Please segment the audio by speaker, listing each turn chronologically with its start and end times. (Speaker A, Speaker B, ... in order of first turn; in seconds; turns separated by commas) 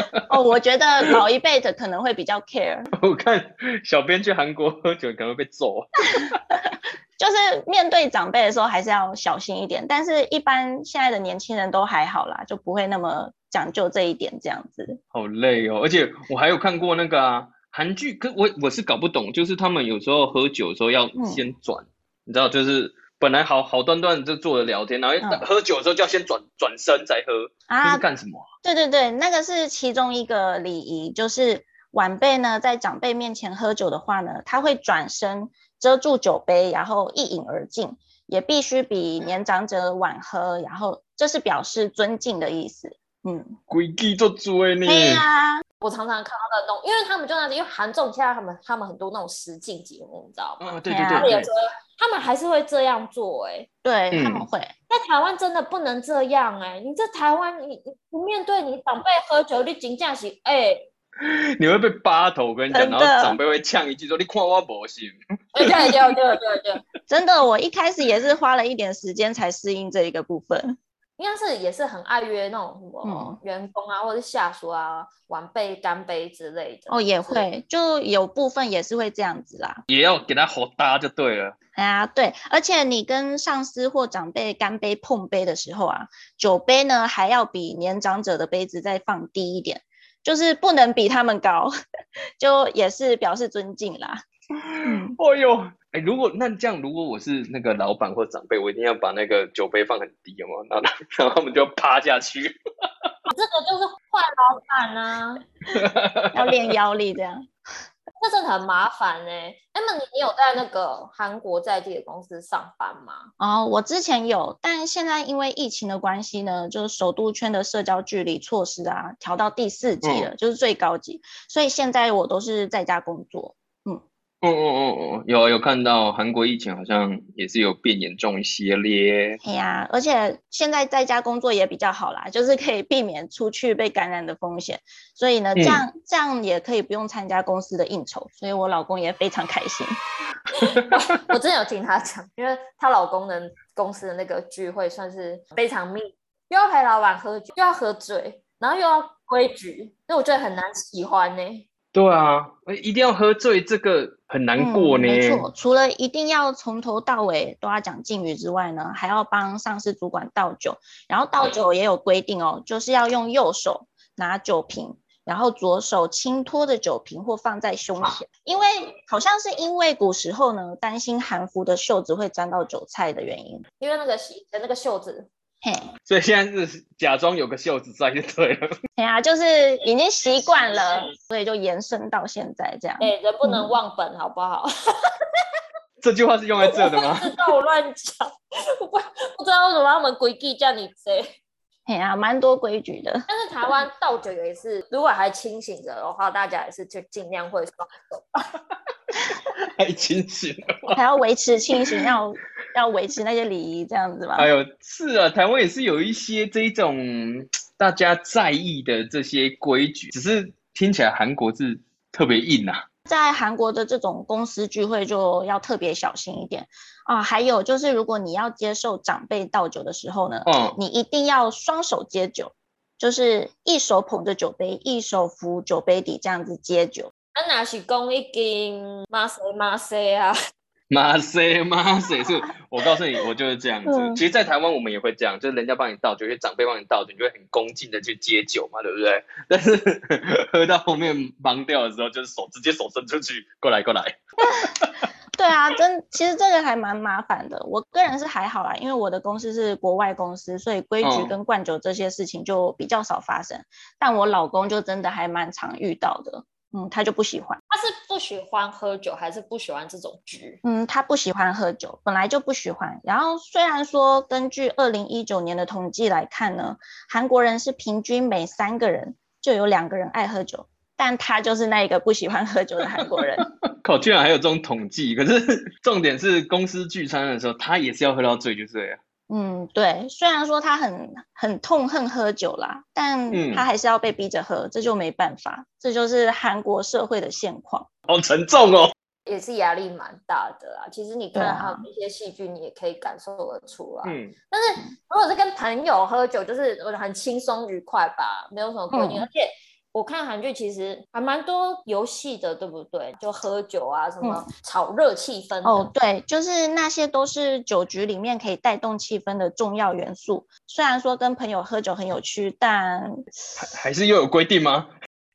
Speaker A: 0.3-2.9, Speaker B: 3.0-6.3, Speaker A: 7.2-15.0, Speaker B: 15.1-28.4, Speaker A: 21.1-21.5, Speaker A: 27.7-28.0, Speaker A: 28.6-43.5, Speaker B: 43.7-45.2, Speaker A: 44.8-45.6, Speaker C: 45.8-50.6, Speaker B: 50.6-51.5, Speaker A: 50.9-51.3, Speaker C: 51.2-53.7, Speaker A: 53.8-54.7, Speaker B: 54.1-54.5, Speaker C: 54.9-60.9, Speaker B: 61.2-66.0, Speaker A: 62.7-63.4, Speaker C: 65.5-66.8, Speaker A: 67.1-70.8, Speaker C: 71.2-77.5, Speaker A: 73.0-73.4, Speaker A: 76.9-79.8, Speaker B: 79.9-81.5, Speaker A: 81.8-91.7, Speaker A: 92.4-94.2, Speaker B: 94.6-103.1, Speaker A: 94.8-95.2, Speaker C: 103.3-105.5, Speaker B: 105.7-106.7, Speaker A: 106.3-107.5, Speaker C: 108.2-113.3, Speaker A: 113.4-124.0, Speaker B: 120.0-120.3, Speaker B: 124.4-129.4, Speaker A: 129.4-140.0, Speaker B: 135.6-135.8, Speaker C: 140.5-151.7, Speaker B: 151.9-155.5, Speaker A: 154.6-173.6, Speaker C: 173.8-175.3, Speaker A: 175.6-175.9, Speaker B: 176.1-178.7, Speaker A: 179.0-183.8, Speaker C: 183.0-185.4, Speaker B: 186.0-187.3, Speaker C: 186.7-191.3, Speaker A: 191.9-193.3, Speaker C: 193.3-198.4, Speaker B: 199.3-201.0, Speaker A: 200.9-204.5, Speaker B: 204.4-212.8, Speaker A: 213.1-227.1, Speaker B: 220.4-220.8, Speaker C: 227.3-230.3, Speaker B: 230.9-244.9, Speaker A: 233.8-234.2, Speaker A: 245.3-257.6, Speaker B: 251.0-251.3, Speaker C: 257.7-260.6, Speaker A: 260.6-273.4, Speaker B: 273.0-279.0, Speaker A: 279.3-287.9, Speaker B: 283.3-283.6, Speaker B: 288.1-288.9, Speaker C: 289.2-305.9, Speaker A: 291.3-291.9, Speaker B: 294.0-294.3, Speaker A: 298.9-299.3, Speaker A: 305.6-313.1, Speaker B: 313.6-314.9